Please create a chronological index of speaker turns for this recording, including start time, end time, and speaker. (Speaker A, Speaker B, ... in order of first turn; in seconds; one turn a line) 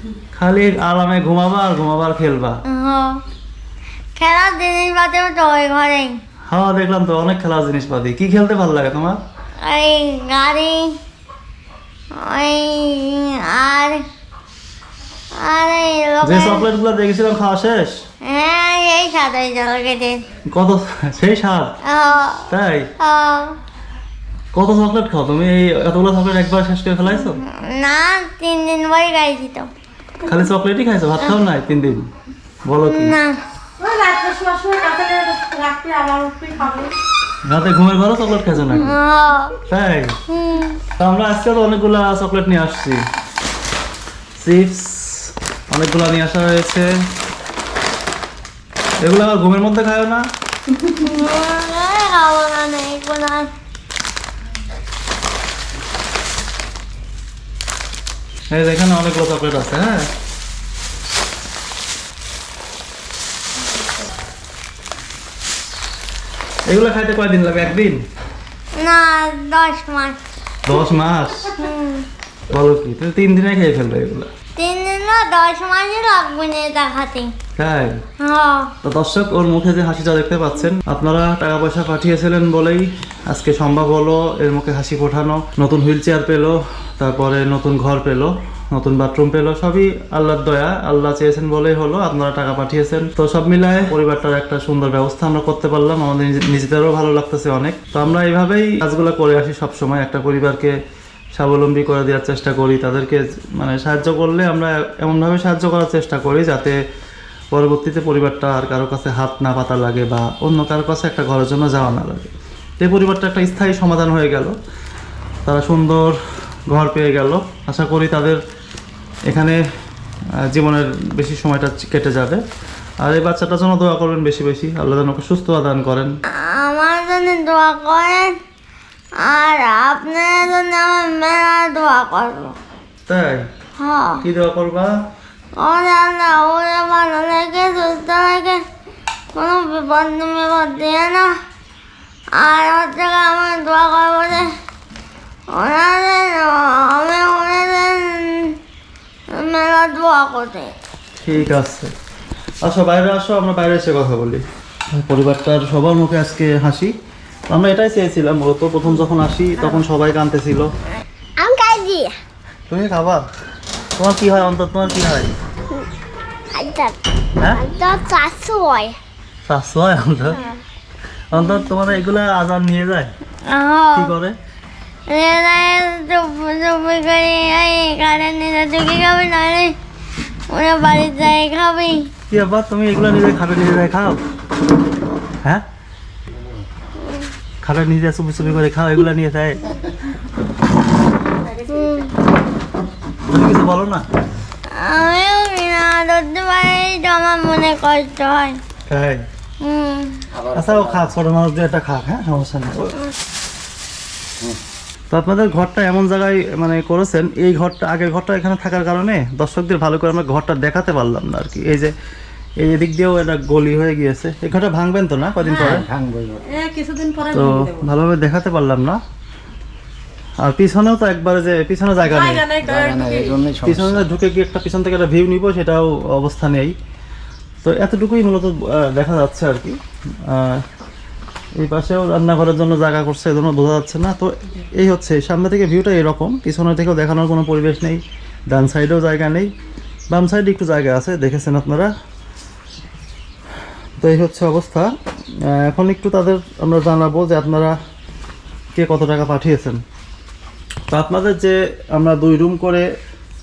Speaker A: 0.3-2.6
Speaker B: 2.7-3.2
Speaker B: 4.2-6.2
Speaker A: 6.5-9.2
Speaker B: 9.6-11.0
Speaker B: 12.2-14.0
Speaker B: 15.4-16.7
Speaker A: 16.2-18.0
Speaker B: 18.2-20.2
Speaker A: 20.5-21.8
Speaker B: 21.9-22.5
Speaker A: 22.5-22.9
Speaker B: 23.0-23.6
Speaker A: 24.5-27.4
Speaker B: 27.1-29.7
Speaker A: 30.3-32.1
Speaker A: 32.7-33.2
Speaker B: 32.9-33.4
Speaker C: 33.8-36.9
Speaker A: 37.5-39.0
Speaker B: 38.5-39.6
Speaker A: 39.7-40.2
Speaker B: 40.3-40.8
Speaker A: 41.0-43.0
Speaker A: 44.4-46.9
Speaker A: 49.0-50.2
Speaker B: 51.0-53.5
Speaker A: 58.5-60.1
Speaker A: 66.7-68.0
Speaker B: 68.8-70.2
Speaker A: 70.7-71.6
Speaker B: 71.6-72.1
Speaker A: 72.5-74.3
Speaker B: 74.6-77.3
Speaker A: 77.6-78.0
Speaker B: 78.2-78.7
Speaker A: 78.8-100.7
Speaker A: 101.4-106.8
Speaker A: 107.5-114.6
Speaker A: 115.5-116.2
Speaker A: 116.7-118.4
Speaker A: 119.3-119.6
Speaker A: 120.5-122.4
Speaker A: 123.0-126.1
Speaker B: 126.4-128.3
Speaker B: 129.2-132.6
Speaker A: 133.1-133.4
Speaker B: 133.8-134.2
Speaker A: 134.2-134.9
Speaker B: 135.6-138.6
Speaker B: 139.3-141.3
Speaker B: 142.4-144.5
Speaker B: 145.5-148.5
Speaker B: 149.3-150.7
Speaker A: 151.2-151.9
Speaker A: 152.6-154.4
Speaker A: 154.9-156.9
Speaker A: 157.5-160.7
Speaker B: 161.4-162.1
Speaker A: 162.7-163.2
Speaker A: 164.0-165.3
Speaker B: 166.5-166.9
Speaker B: 167.5-169.0
Speaker A: 169.5-170.4
Speaker A: 171.3-173.1
Speaker B: 173.4-174.1
Speaker A: 173.9-174.4
Speaker B: 175.1-179.8
Speaker B: 180.5-182.1
Speaker A: 182.3-184.2
Speaker B: 187.0-187.3
Speaker A: 187.6-189.6
Speaker B: 191.7-192.1
Speaker A: 193.3-194.1
Speaker B: 194.7-198.6
Speaker A: 198.9-199.2
Speaker B: 199.6-200.2
Speaker D: 200.3-201.1
Speaker A: 200.6-203.0
Speaker A: 205.1-211.9
Speaker A: 212.6-215.8
Speaker C: 215.5-215.8
Speaker D: 215.5-216.4
Speaker C: 216.5-217.9
Speaker A: 217.3-219.0
Speaker A: 220.4-222.5
Speaker C: 222.1-223.4
Speaker D: 222.6-224.1
Speaker A: 223.7-226.8
Speaker A: 227.6-230.6
Speaker A: 231.6-239.5
Speaker A: 240.1-241.9
Speaker A: 244.0-244.9
Speaker A: 245.5-247.8
Speaker A: 248.8-249.8
Speaker A: 250.9-252.9